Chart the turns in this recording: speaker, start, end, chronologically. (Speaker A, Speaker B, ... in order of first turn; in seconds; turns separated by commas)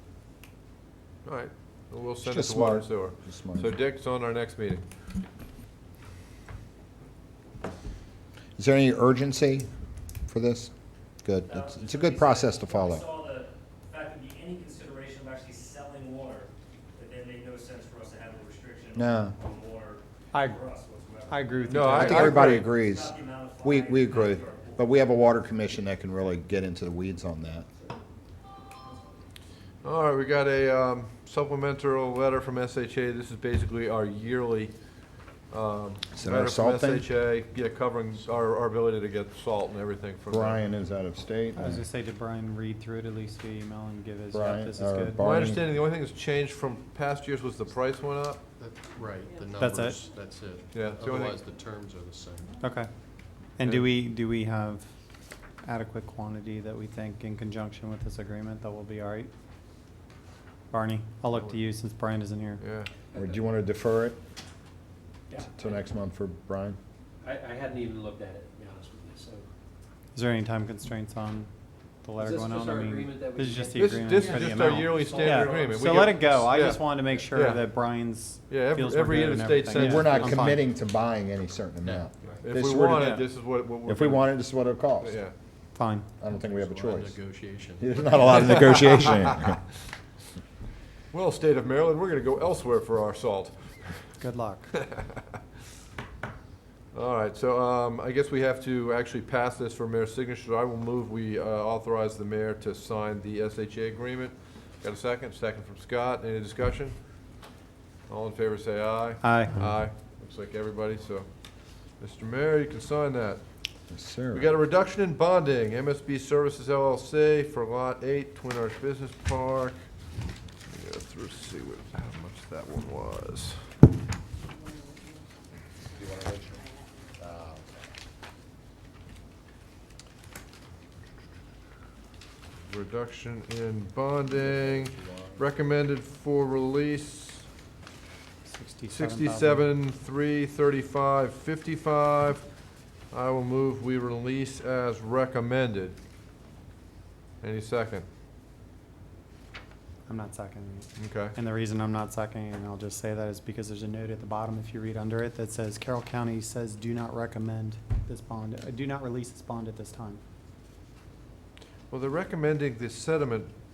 Speaker A: 1.2-4.8, Speaker B: 2.2-3.8, Speaker B: 8.6-9.7, Speaker B: 10.3-10.7, Speaker B: 11.2-13.0, Speaker C: 11.5-24.9, Speaker B: 18.9-19.4, Speaker D: 20.3-20.6, Speaker D: 21.3-22.4, Speaker A: 21.7-22.7, Speaker B: 21.9-27.7, Speaker C: 28.7-29.2, Speaker A: 29.8-34.7, Speaker A: 35.5-40.6, Speaker B: 36.1-37.0, Speaker B: 40.3-41.8, Speaker D: 41.5-45.2, Speaker B: 44.3-45.7, Speaker A: 45.2-48.4, Speaker E: 48.6-52.5, Speaker D: 49.6-50.0, Speaker A: 50.7-51.5, Speaker D: 52.6-52.9, Speaker D: 53.6-54.9, Speaker A: 53.6-53.9, Speaker D: 55.6-59.3, Speaker D: 60.7-62.6, Speaker A: 61.3-61.6, Speaker A: 62.6-62.9, Speaker F: 63.1-63.4, Speaker B: 63.1-64.2, Speaker B: 65.5-66.8, Speaker F: 67.2-69.5, Speaker D: 70.1-71.5, Speaker D: 72.0-80.6, Speaker F: 72.2-76.0, Speaker A: 73.8-77.7, Speaker A: 78.5-80.5, Speaker B: 79.7-83.2, Speaker A: 82.4-84.4, Speaker B: 83.8-85.2, Speaker A: 85.0-85.3, Speaker D: 85.8-86.1, Speaker B: 86.2-87.2, Speaker E: 86.4-88.3, Speaker B: 87.8-89.6, Speaker A: 88.4-89.3, Speaker A: 91.1-94.2, Speaker D: 94.2-94.7, Speaker A: 94.8-95.2, Speaker A: 96.9-107.0, Speaker A: 108.1-111.3, Speaker D: 109.2-109.6, Speaker A: 112.0-113.4, Speaker B: 113.9-114.5, Speaker A: 114.3-119.8, Speaker A: 120.7-123.7, Speaker B: 125.8-126.7, Speaker B: 127.2-127.8, Speaker A: 132.7-137.5, Speaker B: 134.3-135.4, Speaker D: 138.4-139.7, Speaker A: 138.9-142.4, Speaker A: 143.1-146.0, Speaker A: 147.4-148.0, Speaker D: 150.1-160.2, Speaker A: 151.0-151.3, Speaker A: 161.9-163.5